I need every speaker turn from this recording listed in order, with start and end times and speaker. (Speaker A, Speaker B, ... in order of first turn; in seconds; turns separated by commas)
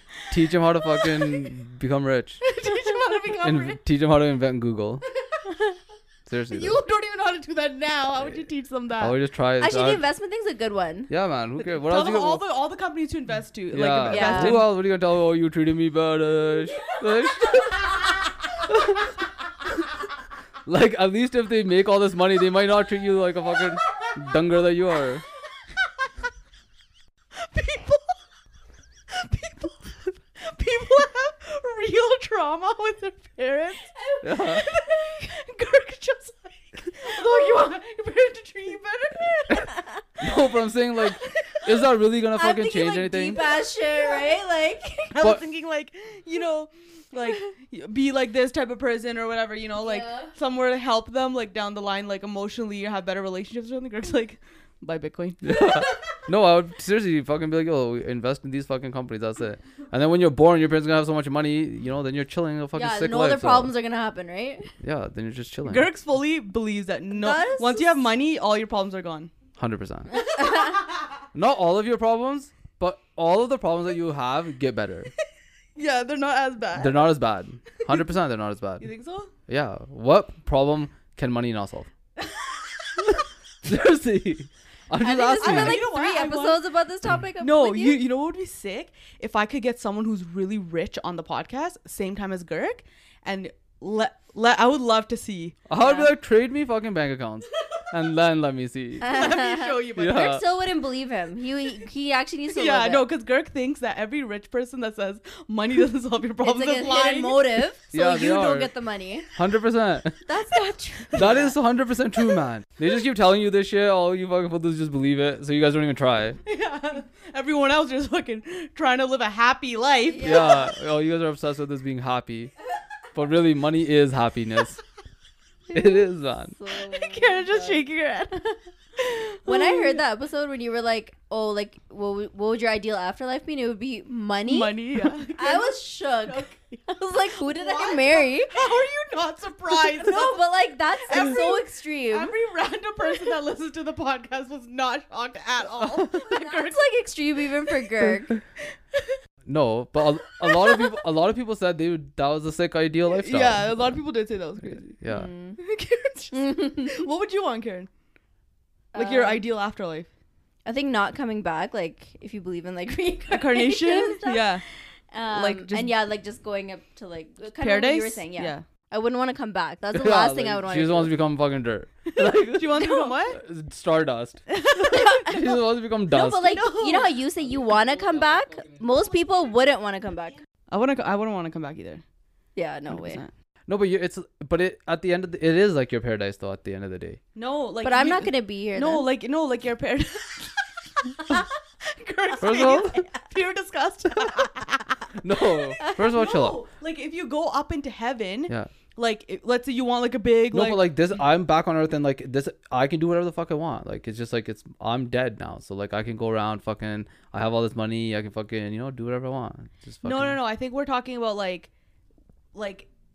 Speaker A: 0.3-2.4, Speaker B: 2.4-3.8, Speaker A: 3.4-5.0, Speaker A: 6.3-6.8, Speaker B: 6.5-9.2, Speaker A: 9.0-10.0, Speaker C: 9.6-11.1, Speaker A: 11.1-12.4, Speaker B: 11.6-14.7, Speaker A: 13.7-18.0, Speaker C: 14.1-14.6, Speaker A: 18.7-19.1, Speaker A: 20.7-25.2, Speaker B: 27.4-28.2, Speaker B: 29.1-39.8, Speaker A: 34.2-34.6, Speaker A: 40.2-43.4, Speaker B: 41.2-41.6, Speaker C: 42.4-45.1, Speaker B: 45.1-55.8, Speaker C: 49.8-50.3, Speaker A: 55.4-63.7, Speaker C: 62.8-64.7, Speaker A: 64.8-65.9, Speaker B: 65.7-69.3, Speaker C: 67.1-67.9, Speaker A: 69.6-70.2, Speaker C: 70.3-70.8, Speaker A: 71.3-75.1, Speaker B: 75.8-77.1, Speaker A: 76.8-78.9, Speaker B: 78.8-79.3, Speaker A: 79.5-81.9, Speaker A: 83.7-85.9, Speaker C: 85.0-88.0, Speaker B: 85.4-86.6, Speaker B: 87.4-95.7, Speaker A: 95.7-99.2, Speaker C: 95.8-96.1, Speaker B: 99.0-100.4, Speaker C: 99.0-103.1, Speaker A: 100.0-100.4, Speaker B: 102.5-107.6, Speaker C: 106.4-109.3, Speaker A: 107.9-108.7, Speaker A: 109.3-110.2, Speaker C: 110.3-111.5, Speaker A: 111.1-116.4, Speaker B: 116.5-120.5, Speaker C: 120.1-120.7, Speaker A: 120.2-122.5, Speaker A: 123.2-124.8, Speaker A: 125.7-126.5, Speaker C: 126.6-127.8, Speaker B: 126.8-130.0, Speaker C: 129.5-138.7, Speaker B: 134.5-136.8, Speaker B: 137.4-140.4, Speaker C: 139.8-142.3, Speaker B: 141.0-146.8, Speaker C: 146.0-148.4, Speaker A: 149.5-154.0, Speaker B: 150.4-150.8, Speaker B: 153.1-155.0, Speaker A: 155.0-155.3, Speaker C: 155.1-155.6, Speaker B: 155.6-157.9, Speaker C: 156.3-157.0, Speaker C: 158.9-159.4, Speaker B: 158.9-160.1, Speaker C: 160.7-164.5, Speaker B: 163.3-164.6, Speaker C: 165.1-171.1, Speaker B: 165.3-165.9, Speaker B: 167.6-168.6, Speaker A: 169.9-176.5, Speaker B: 172.1-173.4, Speaker C: 172.8-173.1, Speaker B: 174.5-175.3, Speaker C: 174.9-175.5, Speaker C: 176.1-180.4, Speaker B: 176.2-177.2, Speaker B: 180.7-182.0, Speaker C: 182.6-183.2, Speaker B: 182.9-183.3, Speaker A: 183.7-187.2, Speaker B: 187.4-200.9, Speaker C: 187.8-189.1, Speaker A: 192.4-193.1, Speaker A: 195.2-196.6, Speaker A: 200.5-210.4, Speaker B: 210.0-211.7, Speaker B: 212.5-212.9